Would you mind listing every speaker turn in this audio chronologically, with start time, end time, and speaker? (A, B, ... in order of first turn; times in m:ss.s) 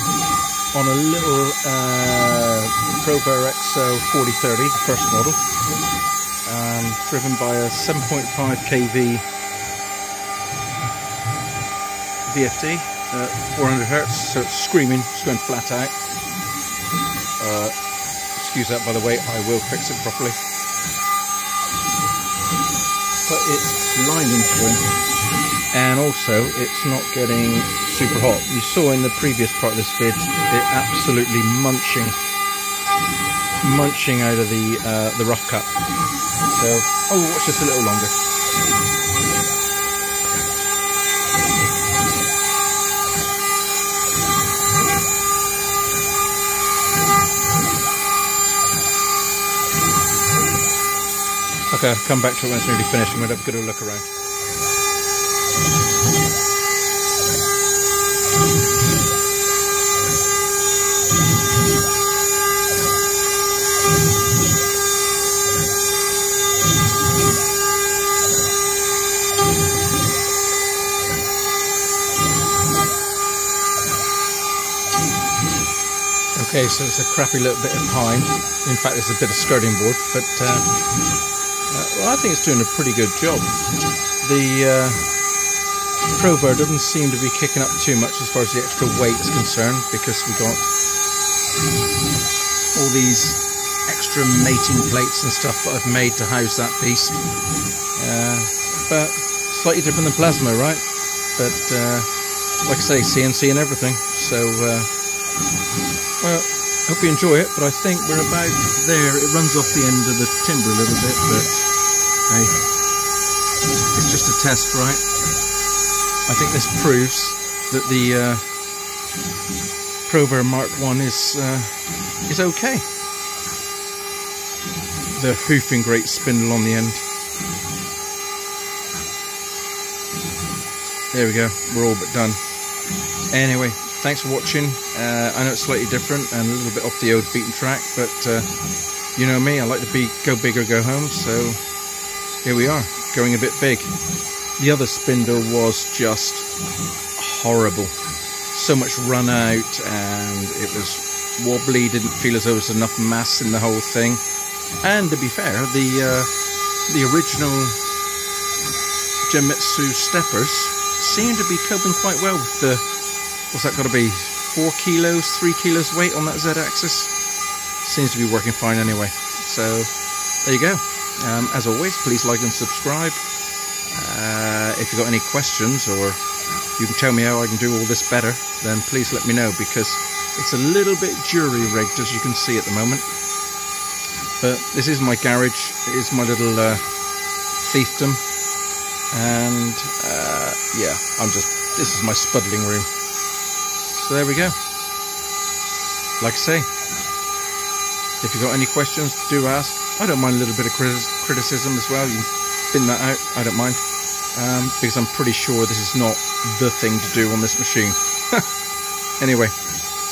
0:00.7-0:05.4 A
0:06.4-0:09.3 A
0:12.3-0:16.0 A
0:17.4-0:17.7 A
0:18.3-0:20.4 A
0:23.2-0:24.9 A
0:25.7-0:32.2 A
0:33.6-0:35.7 A
0:36.5-0:38.2 A
0:51.7-0:54.1 A
1:16.4-1:20.7 A
1:21.7-1:23.6 A
1:24.2-1:25.1 A
1:26.1-1:30.7 A
1:32.7-1:37.2 A
1:38.0-1:40.8 A
1:41.4-1:42.1 A
1:42.6-1:44.9 A
1:46.2-1:51.7 A
1:52.3-1:52.6 A
1:53.9-1:55.0 A
1:56.3-1:58.5 A
2:00.1-2:02.9 A
2:05.1-2:07.0 A
2:11.1-2:12.4 A
2:13.3-2:18.5 A
2:19.2-2:21.6 A
2:22.4-2:23.9 A
2:24.6-2:26.5 A
2:27.2-2:27.9 A
2:28.5-2:34.2 A
2:34.8-2:36.3 A
2:36.9-2:37.8 A
2:39.2-2:42.9 A
2:43.5-2:47.1 A
2:47.8-2:49.9 A
2:50.4-2:53.2 A
2:53.9-2:56.2 A
2:56.8-3:03.1 A
3:04.4-3:06.8 A
3:07.6-3:08.2 A
3:09.1-3:12.9 A
3:13.9-3:14.6 A
3:16.2-3:16.7 A
3:18.2-3:23.8 A
3:24.3-3:28.4 A
3:29.2-3:29.6 A